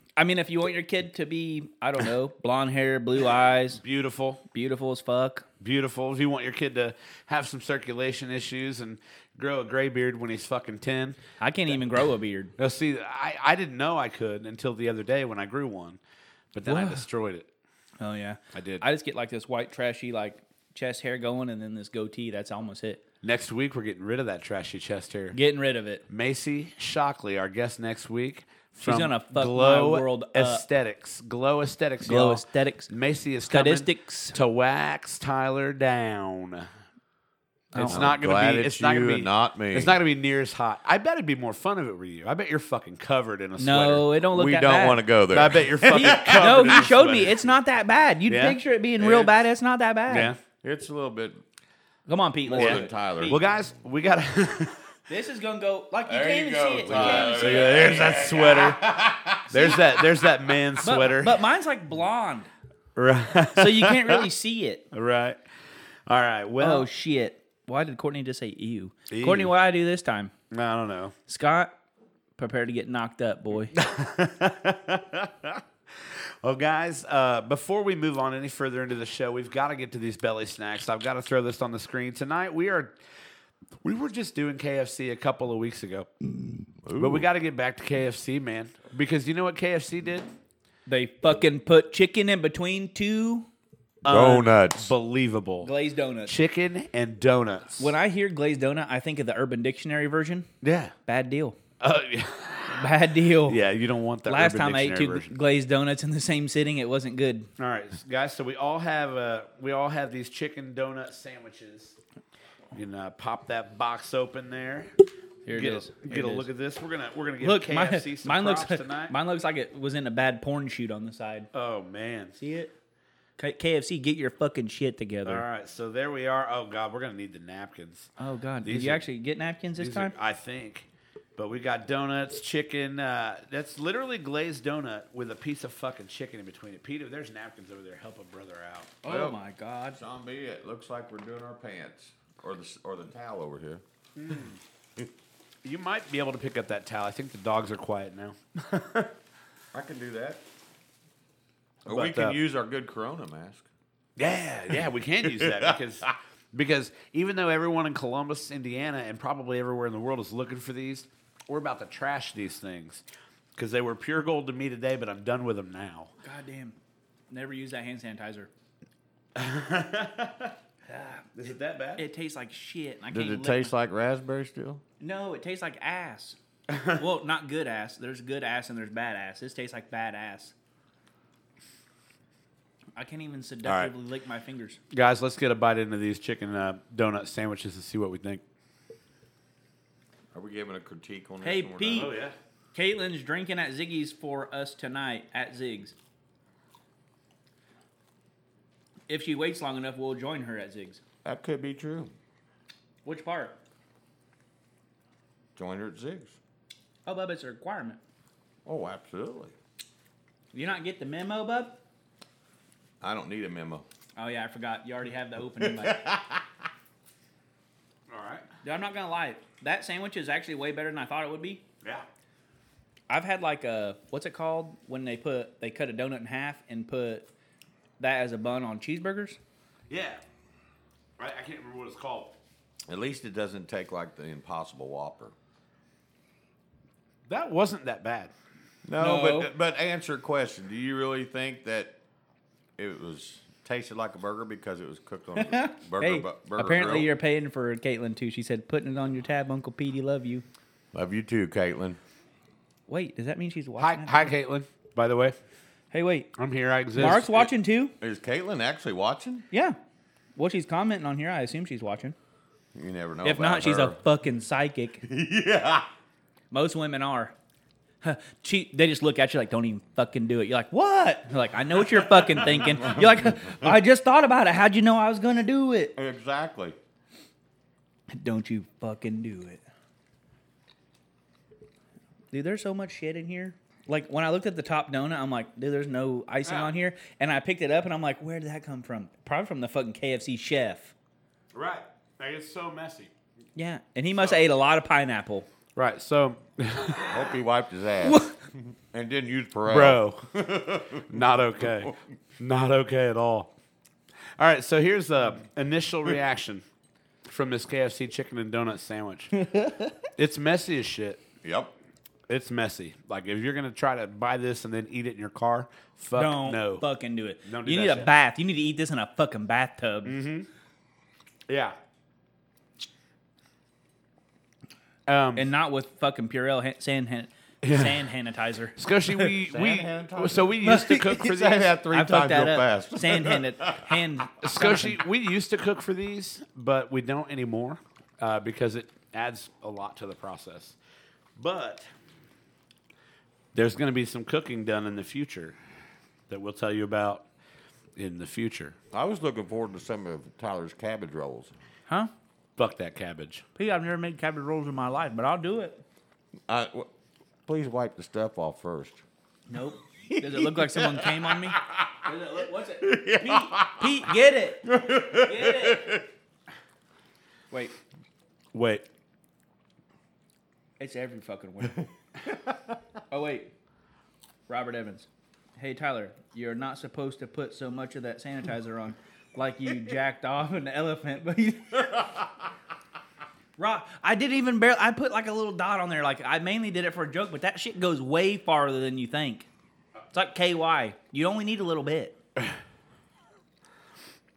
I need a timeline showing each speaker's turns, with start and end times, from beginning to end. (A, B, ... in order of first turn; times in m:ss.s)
0:00.2-0:03.8 A
0:03.8-0:04.4 B
0:04.5-0:05.5 A
0:05.6-0:11.2 B
0:11.4-0:12.5 A
0:12.6-0:16.0 B
0:16.5-0:17.5 B
0:16.6-0:17.0 A
0:18.0-0:23.0 A
0:18.5-0:18.8 B
0:23.2-0:25.4 B
0:25.3-0:26.0 A
0:26.1-0:36.7 B
0:28.8-0:30.6 A
0:32.0-0:32.9 A
0:33.5-0:34.4 A
0:37.7-0:38.1 A
0:37.7-0:44.1 B
0:37.9-0:40.0 C
0:43.6-0:45.0 A
0:44.3-0:47.1 C
0:45.3-0:47.6 B
0:45.9-0:50.3 A
0:48.3-0:48.6 B
0:49.0-0:49.3 C
0:50.1-0:50.4 B
0:50.6-0:51.4 C
0:52.1-0:53.4 A
0:52.5-0:53.4 C
0:52.6-0:54.8 B
0:55.1-0:58.1 A
0:56.1-1:00.1 C
0:56.9-0:58.9 B
0:59.5-1:01.4 B
1:00.8-1:02.5 A
1:03.0-1:04.2 B
1:03.6-1:04.8 A
1:04.9-1:05.4 B
1:06.1-1:06.9 B
1:06.6-1:10.3 A
1:09.1-1:09.5 B
1:10.5-1:11.2 B
1:11.3-1:11.7 A
1:12.4-1:13.8 A
1:13.7-1:23.0 B
1:23.8-1:26.1 B
1:26.8-1:27.3 C
1:27.0-1:30.3 B
1:30.9-1:33.5 A
1:34.0-1:35.7 B
1:34.1-1:34.9 C
1:35.6-1:36.4 A
1:36.3-1:37.9 B
1:37.8-1:40.5 A
1:40.6-1:40.9 B
1:41.1-1:41.6 A
1:41.8-1:42.9 B
1:42.7-1:43.6 A
1:43.4-1:45.3 B
1:44.3-1:47.5 A
1:47.6-1:52.0 B
1:52.7-1:54.9 B
1:55.5-1:56.5 A
1:55.5-1:59.1 B
1:57.4-2:01.5 A
2:01.5-2:02.4 B
2:02.4-2:02.7 A
2:03.4-2:05.4 A
2:05.2-2:08.1 B
2:08.2-2:10.1 A
2:08.6-2:09.1 B
2:09.8-2:19.0 B
2:19.0-2:20.0 A
2:19.1-2:19.4 C
2:19.9-2:23.8 C
2:24.2-2:24.6 B
2:25.6-2:29.1 B
2:29.7-2:30.4 C
2:31.9-2:32.4 B
2:31.9-2:33.7 C
2:34.2-2:43.0 B
2:35.2-2:36.1 C
2:43.6-2:46.1 B
2:46.2-2:46.8 A
2:47.3-2:48.5 A
2:49.4-2:50.6 B
2:50.9-2:51.2 A
2:51.2-2:52.0 B
2:52.0-2:53.7 A
2:53.1-2:54.8 C
2:55.0-2:56.4 A
2:56.7-2:57.0 B
2:56.9-3:00.5 A
3:03.0-3:04.8 A
3:03.6-3:03.9 B
3:04.9-3:08.4 B
3:10.3-3:12.1 C
3:11.4-3:12.1 A
3:11.9-3:12.4 B
3:12.7-3:16.0 A
3:19.1-3:21.0 A
3:21.2-3:22.1 C
3:23.0-3:23.6 A
3:25.6-3:26.4 C
3:27.1-3:28.0 A
3:28.6-3:29.5 C
3:30.5-3:31.8 A
3:33.0-3:33.8 C
3:34.2-3:36.1 A
3:35.6-3:36.4 C
3:38.1-3:38.5 B
3:38.6-3:41.6 A
3:43.1-3:47.3 A
3:48.0-3:49.4 A
3:49.9-3:50.2 B
3:51.2-3:52.4 B
3:52.9-3:55.4 C
3:57.3-3:58.3 B
3:58.9-4:02.0 C
3:59.0-3:59.5 A
4:02.8-4:07.1 C
4:05.4-4:10.4 A
4:10.9-4:12.0 C
4:12.9-4:14.3 A
4:13.8-4:15.4 B
4:15.9-4:16.3 A
4:16.4-4:17.3 B
4:17.0-4:17.9 A
4:18.0-4:19.5 C
4:19.5-4:19.8 A
4:20.4-4:22.2 A
4:22.8-4:24.0 C
4:23.2-4:25.0 A
4:25.0-4:25.9 C
4:26.5-4:27.4 A
4:28.0-4:35.9 A
4:32.1-4:33.7 C
4:36.0-4:36.8 C
4:38.1-4:39.6 A
4:42.3-4:50.9 A
4:46.4-4:46.7 B
4:51.5-4:53.1 B
4:53.6-4:55.5 A
4:55.8-4:57.3 B
4:57.0-4:58.4 C
4:58.0-4:58.4 A
4:58.9-5:01.0 C
4:59.7-5:00.3 B
5:01.0-5:03.5 B
5:04.4-5:06.6 B
5:07.3-5:09.3 B
5:09.4-5:09.9 A
5:10.2-5:11.2 B
5:11.4-5:11.7 C
5:12.3-5:16.8 B
5:16.2-5:20.2 A
5:17.4-5:18.1 B
5:20.0-5:20.5 B
5:21.5-5:21.8 B
5:25.1-5:25.5 B
5:25.4-5:29.3 A
5:27.6-5:28.1 B
5:28.8-5:31.7 B
5:29.4-5:33.9 C
5:30.6-5:31.2 A
5:31.9-5:35.0 A
5:34.4-5:40.8 B
5:41.4-5:41.9 B
5:43.5-5:45.6 B
5:46.3-5:47.3 B
5:48.0-5:48.8 B
5:48.9-5:51.5 C
5:52.6-5:53.4 B
5:53.6-5:55.8 A
5:56.5-5:56.9 C
5:57.5-5:59.0 C
5:59.5-6:05.9 A
6:00.1-6:02.0 C
6:02.8-6:04.1 C
6:04.6-6:06.1 C
6:08.5-6:08.9 B
6:10.8-6:11.8 A
6:13.1-6:13.5 A
6:14.5-6:22.2 A
6:23.6-6:29.5 A
6:30.1-6:32.2 A